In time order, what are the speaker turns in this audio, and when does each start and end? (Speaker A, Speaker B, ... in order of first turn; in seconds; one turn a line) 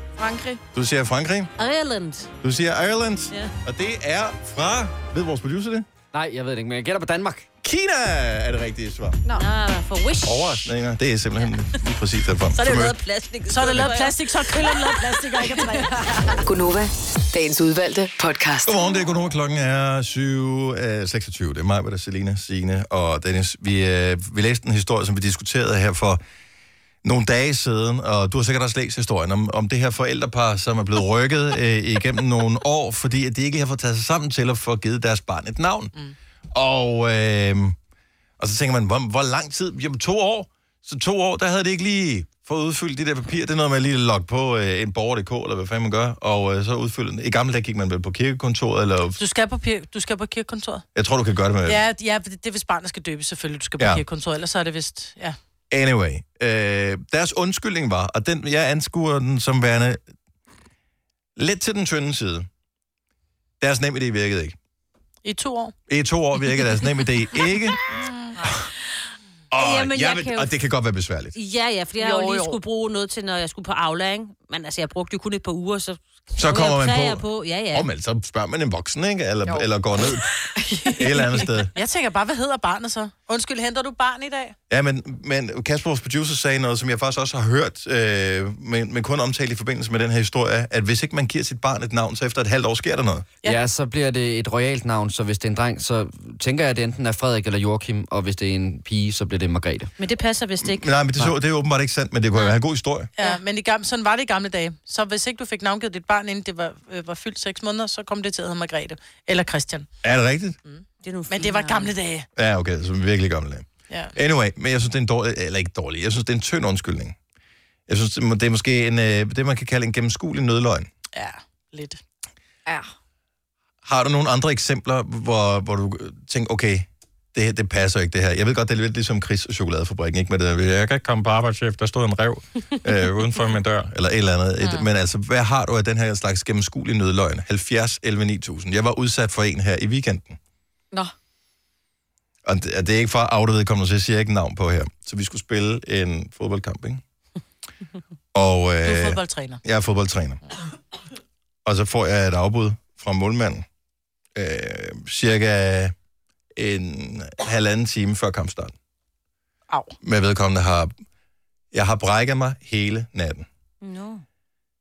Speaker A: 0.2-0.6
Speaker B: 0.7-1.5
Speaker C: 1.6-2.3
Speaker B: 2.4-5.8
Speaker D: 6.1-7.5
Speaker B: 7.6-9.2
Speaker C: 9.3-10.7
Speaker B: 10.2-12.9
Speaker C: 12.6-15.0
Speaker E: 13.5-16.4
Speaker A: 15.6-15.9
Speaker F: 16.4-18.8
Speaker B: 18.6-26.2
Speaker B: 27.0-35.9
Speaker B: 36.5-37.8
Speaker B: 38.4-49.2
Speaker E: 49.2-50.8
Speaker B: 50.9-51.8
Speaker E: 51.6-55.4
Speaker B: 55.7-60.0
Speaker B: 61.4-62.5
Speaker B: 63.6-64.5
Speaker E: 65.2-65.7
Speaker B: 65.9-68.7
Speaker E: 67.9-68.3
Speaker B: 69.5-71.4
Speaker C: 69.5-70.5
Speaker C: 71.3-77.9
Speaker A: 72.0-72.6
Speaker B: 76.3-80.3
Speaker A: 80.5-81.5
Speaker B: 80.9-81.7
Speaker E: 81.7-84.5
Speaker B: 84.7-93.2
Speaker D: 93.4-99.9
Speaker C: 100.0-100.9
Speaker B: 100.6-103.1
Speaker E: 103.2-109.9
Speaker B: 110.0-110.5
Speaker E: 110.6-112.3
Speaker C: 111.0-111.9
Speaker B: 112.3-117.2
Speaker E: 113.9-114.1
Speaker B: 117.9-120.9
Speaker E: 121.1-122.0
Speaker B: 123.8-140.4
Speaker E: 134.6-134.9
Speaker B: 142.4-147.0
Speaker B: 148.3-150.4
Speaker E: 148.8-149.6
Speaker B: 151.6-153.6
Speaker B: 154.3-155.9
Speaker B: 156.6-158.7
Speaker E: 159.7-159.9
Speaker B: 160.0-160.9
Speaker B: 161.7-163.4
Speaker C: 163.8-164.2